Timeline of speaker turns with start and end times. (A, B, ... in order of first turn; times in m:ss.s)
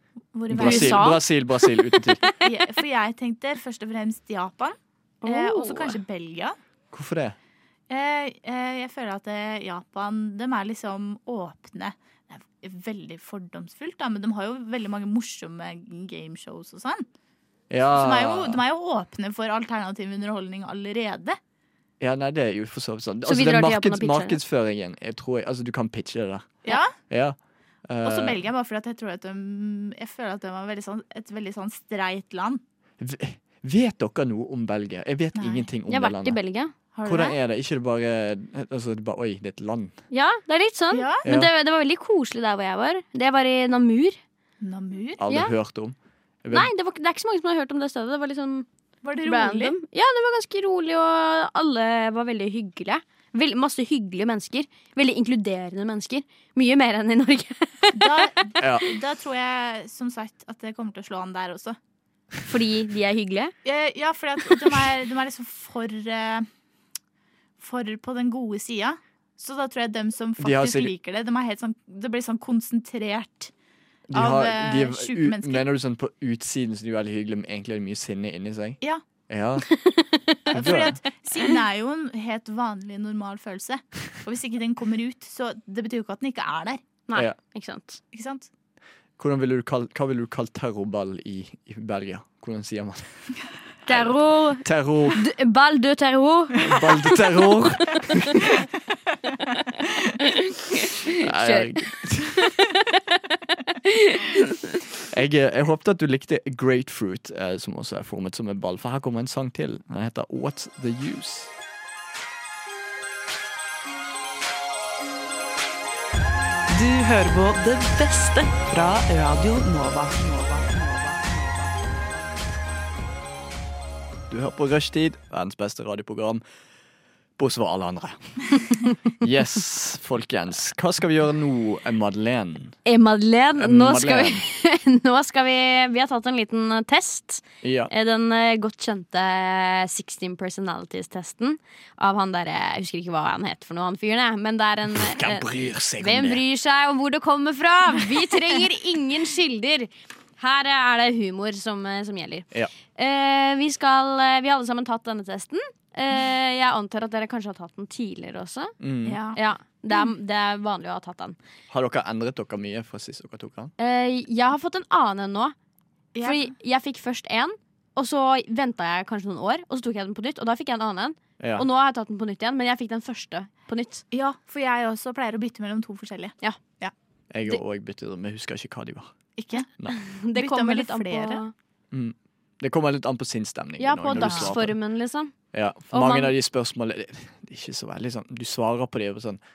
0:00.3-0:01.1 A
0:00.5-0:02.2 B
0:00.6-0:02.2 C
0:02.4-0:06.6 A
0:05.2-0:06.0 C
0:06.9-0:07.4 B
0:07.9-0:17.0 A
0:17.7-0:18.6 B
0:17.9-0:21.4 A
0:22.0-0:28.4 B
0:23.2-0:24.4 C
0:26.6-0:27.0 A
0:28.0-0:32.6 A
0:33.0-0:36.4 B
0:35.4-0:35.7 A
0:35.9-0:36.7 C
0:36.9-0:37.4 A
0:37.0-0:40.0 B
0:40.1-0:44.2 C
0:40.9-0:41.2 A
0:41.2-0:41.5 B
0:44.6-0:45.2 A
0:45.2-0:46.7 B
0:45.3-0:45.5 C
0:46.5-0:48.7 C
0:49.0-0:49.8 A
0:49.2-0:58.3 C
0:57.9-1:01.8 A
0:58.6-0:58.8 B
1:02.5-1:03.5 C
1:03.6-1:06.5 A
1:07.6-1:13.5 A
1:10.4-1:10.9 B
1:14.1-1:19.7 B
1:14.1-1:15.6 A
1:19.7-1:20.8 C
1:20.5-1:26.8 A
1:20.5-1:20.9 B
1:27.1-1:28.0 C
1:28.1-1:28.5 A
1:29.2-1:33.3 B
1:33.8-1:36.8 C
1:33.9-1:35.2 B
1:36.6-1:38.6 B
1:40.2-1:44.5 C
1:41.2-1:42.4 B
1:45.1-1:51.5 B
1:56.8-2:00.9 D
2:04.3-2:06.4 B
2:07.4-2:12.8 B
2:12.8-2:38.8 C
2:13.6-2:14.4 B
2:17.6-2:17.9 B
2:24.9-2:26.4 B
2:38.8-2:39.2 B
2:39.0-2:39.4 A
2:39.3-2:41.4 C
2:41.7-2:43.7 B
2:43.8-2:45.5 C
2:46.1-2:46.5 A
2:46.2-2:54.0 C
2:51.4-2:51.6 B
2:54.1-2:56.9 A
2:57.3-2:59.1 B
2:59.4-2:59.7 A
2:59.9-3:01.5 C
3:00.3-3:01.4 A
3:01.9-3:04.8 B
3:03.8-3:05.3 C
3:04.1-3:04.5 A
3:05.5-3:09.4 B
3:05.9-3:06.3 C